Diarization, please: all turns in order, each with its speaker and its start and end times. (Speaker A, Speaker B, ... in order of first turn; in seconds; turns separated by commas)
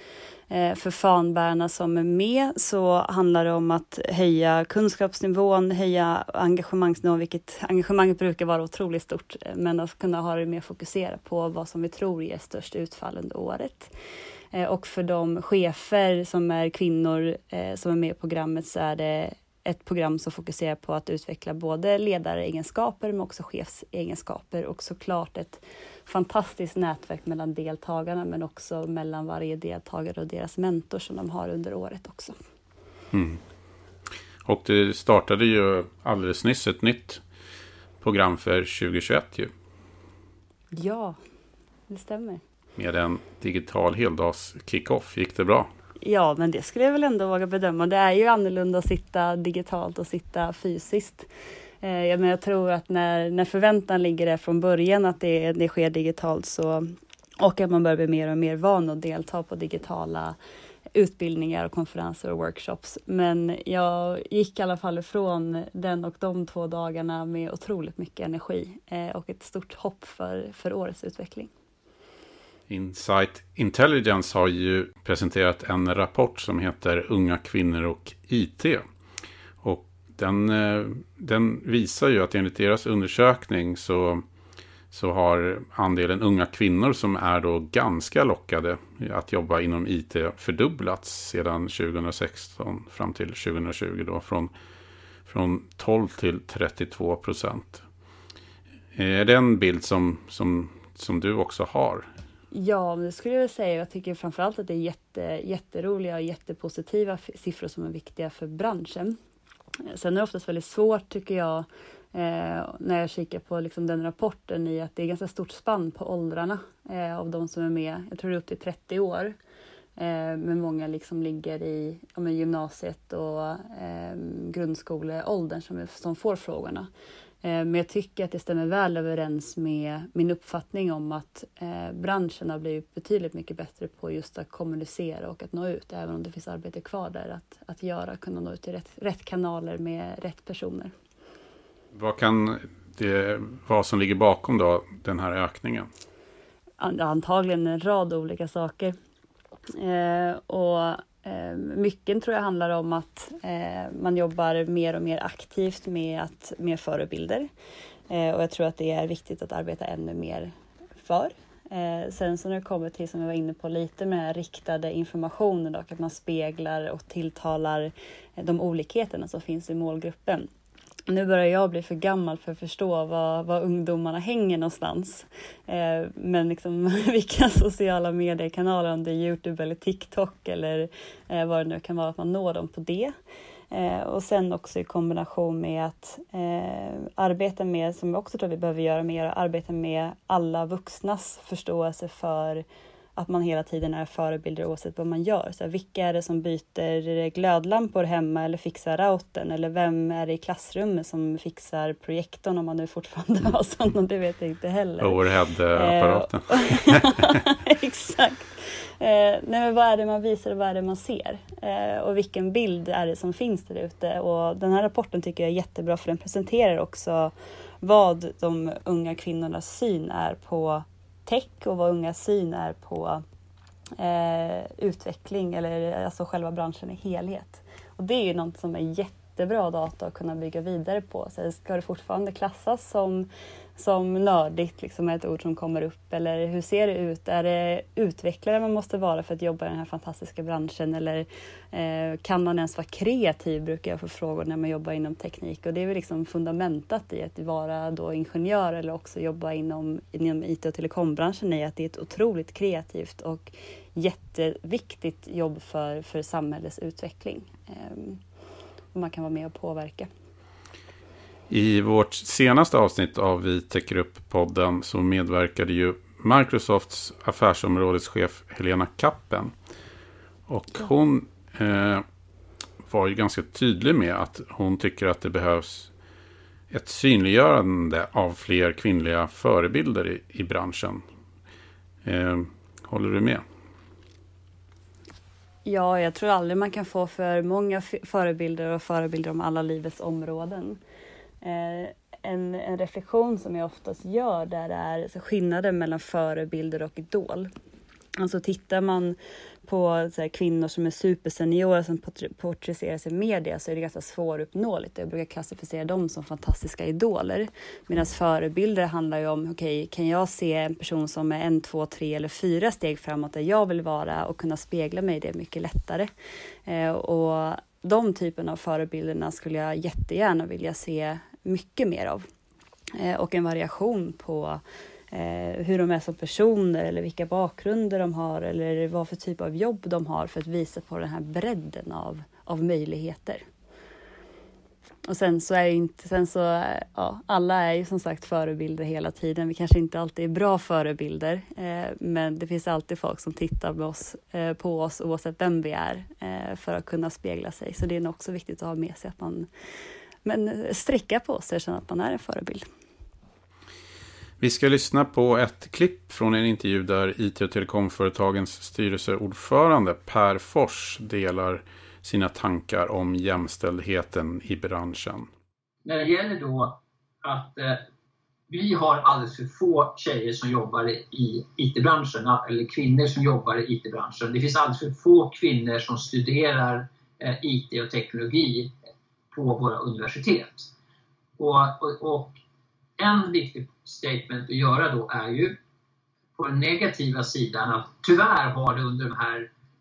Speaker A: 0.5-13.9, Speaker A: 14.5-32.4, Speaker B: 33.1-33.4, Speaker B: 34.5-37.2, Speaker B: 38.0-39.5, Speaker A: 40.7-41.2, Speaker A: 41.9-42.4, Speaker B: 42.8-45.7, Speaker A: 46.0-51.3, Speaker A: 51.8-60.4, Speaker A: 61.0-71.5, Speaker B: 72.7-78.8, Speaker B: 79.6-84.2, Speaker B: 84.9-94.5, Speaker B: 95.3-97.8, Speaker B: 98.9-102.1, Speaker A: 102.5-109.2, Speaker A: 109.9-119.3, Speaker A: 120.0-126.9, Speaker A: 127.4-140.9, Speaker B: 141.9-145.9, Speaker A: 146.8-149.0, Speaker A: 149.8-157.5, Speaker A: 158.1-170.5, Speaker A: 171.1-183.2, Speaker A: 183.7-192.6, Speaker A: 193.2-205.2, Speaker B: 205.0-207.3, Speaker A: 205.7-223.2, Speaker A: 224.0-258.2, Speaker A: 258.9-260.1, Speaker B: 261.5-269.5, Speaker B: 270.5-272.0, Speaker B: 272.8-275.9, Speaker B: 276.7-281.0, Speaker B: 282.0-283.4, Speaker A: 285.7-290.8, Speaker A: 291.4-297.5, Speaker A: 298.2-316.1, Speaker A: 316.7-322.3, Speaker A: 322.9-333.4, Speaker A: 335.1-349.5, Speaker A: 350.2-352.7, Speaker B: 354.4-365.3, Speaker C: 365.9-367.8, Speaker C: 368.5-378.7, Speaker C: 379.3-380.7, Speaker C: 381.4-382.4, Speaker C: 383.0-385.6, Speaker C: 386.4-389.5